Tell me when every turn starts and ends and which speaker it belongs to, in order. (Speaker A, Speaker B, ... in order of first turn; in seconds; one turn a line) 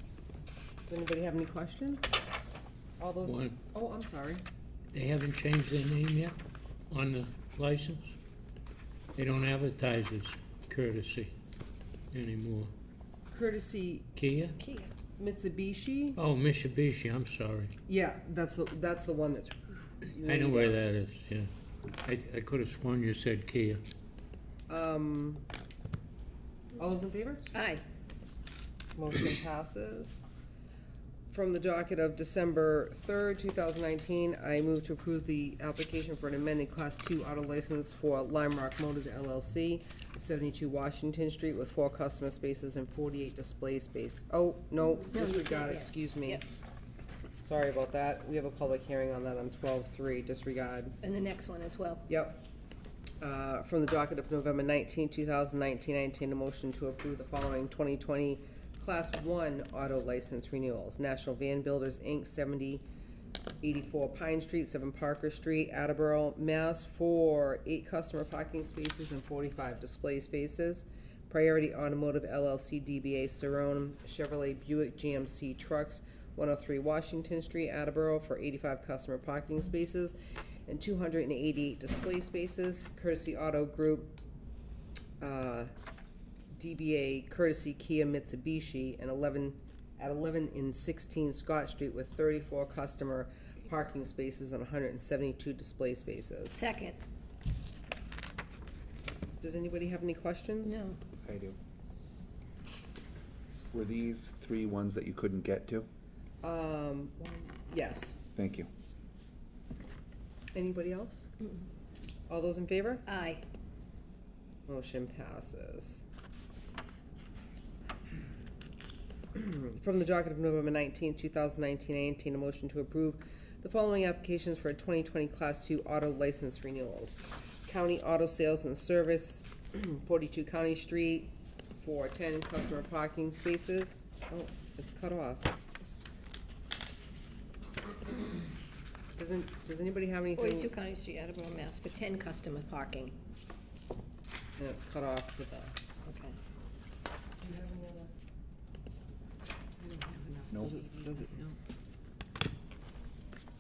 Speaker A: 0.9-2.1
Speaker A: 3.0-4.4
Speaker B: 3.2-3.6
Speaker B: 4.9-6.3
Speaker B: 6.9-8.1
Speaker B: 9.2-11.3
Speaker B: 12.1-12.7
Speaker A: 13.3-14.1
Speaker B: 14.2-14.6
Speaker C: 14.6-14.9
Speaker A: 15.2-16.2
Speaker B: 16.2-17.7
Speaker A: 17.9-20.8
Speaker B: 20.2-21.5
Speaker B: 22.1-23.8
Speaker A: 24.7-25.4
Speaker A: 26.8-27.6
Speaker C: 27.5-27.8
Speaker A: 29.0-30.2
Speaker A: 31.3-46.4
Speaker C: 45.0-46.4
Speaker A: 47.4-51.0
Speaker C: 51.0-52.1
Speaker A: 52.1-52.4
Speaker A: 53.2-62.8
Speaker A: 63.6-80.2
Speaker A: 80.7-84.1
Speaker A: 85.2-85.7
Speaker A: 86.5-96.6
Speaker C: 96.5-97.0
Speaker A: 99.4-100.8
Speaker C: 100.7-101.0
Speaker D: 101.2-101.6
Speaker D: 103.7-105.9
Speaker A: 106.4-108.2
Speaker D: 108.4-108.7
Speaker A: 110.5-111.3
Speaker A: 112.3-113.1
Speaker C: 113.1-113.4
Speaker A: 114.7-116.0
Speaker A: 119.3-135.5
Speaker A: 139.2-140.7
Speaker C: 140.3-143.2
Speaker A: 144.6-145.8
Speaker C: 146.1-146.4
Speaker A: 147.4-148.1
Speaker A: 149.8-151.6
Speaker D: 150.5-150.8